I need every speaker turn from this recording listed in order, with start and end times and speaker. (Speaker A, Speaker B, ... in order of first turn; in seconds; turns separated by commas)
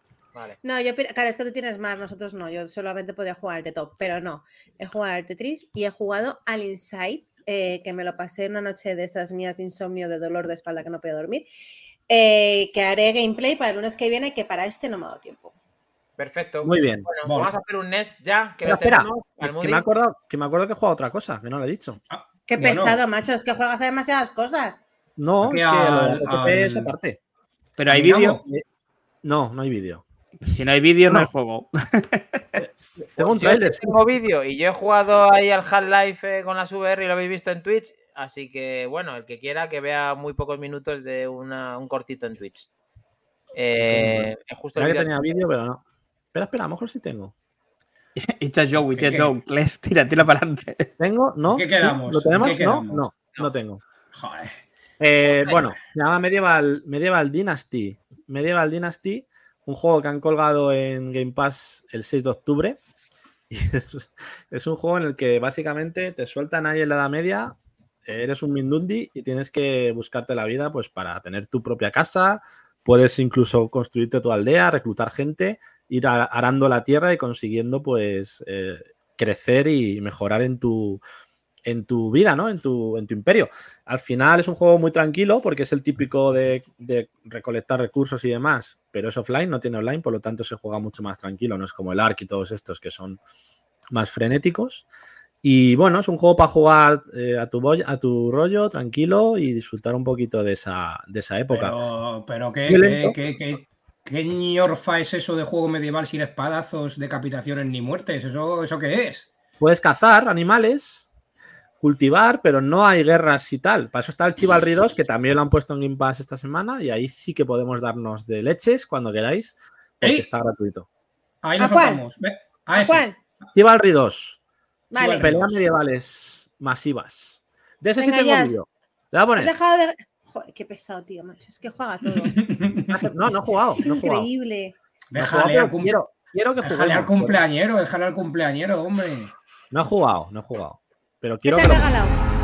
Speaker A: 0.6-11.5, Speaker A: 12.1-15.5, Speaker B: 16.2-19.8, Speaker C: 16.6-17.1, Speaker D: 17.2-17.5, Speaker C: 18.6-22.0, Speaker D: 22.1-23.0, Speaker A: 22.5-24.8, Speaker C: 25.2-27.2, Speaker D: 25.4-26.9, Speaker E: 27.8-28.4, Speaker D: 27.9-28.4, Speaker C: 29.2-30.0, Speaker E: 30.4-32.2, Speaker C: 32.6-33.9, Speaker B: 33.2-42.7, Speaker B: 43.5-45.1, Speaker C: 43.9-45.8, Speaker C: 46.3-47.3, Speaker E: 48.2-50.9, Speaker D: 48.9-49.3, Speaker C: 51.0-53.8, Speaker D: 51.5-53.1, Speaker D: 54.1-54.6, Speaker C: 55.0-62.8, Speaker C: 63.5-67.5, Speaker C: 68.0-81.0, Speaker C: 81.6-93.2, Speaker C: 93.9-94.8, Speaker C: 95.4-101.8, Speaker D: 101.5-109.3, Speaker C: 102.7-103.2, Speaker C: 109.6-111.1, Speaker C: 111.8-120.8, Speaker D: 121.4-123.1, Speaker A: 121.6-122.0, Speaker A: 122.7-123.2, Speaker C: 123.5-124.4, Speaker A: 124.9-125.3, Speaker D: 125.0-125.6, Speaker C: 125.0-129.5, Speaker A: 128.0-128.6, Speaker A: 129.3-132.3, Speaker D: 132.2-133.0, Speaker C: 132.9-134.3, Speaker A: 133.5-134.7, Speaker D: 135.1-135.9, Speaker C: 135.1-137.4, Speaker D: 136.6-139.3, Speaker C: 139.7-141.9, Speaker A: 141.4-142.2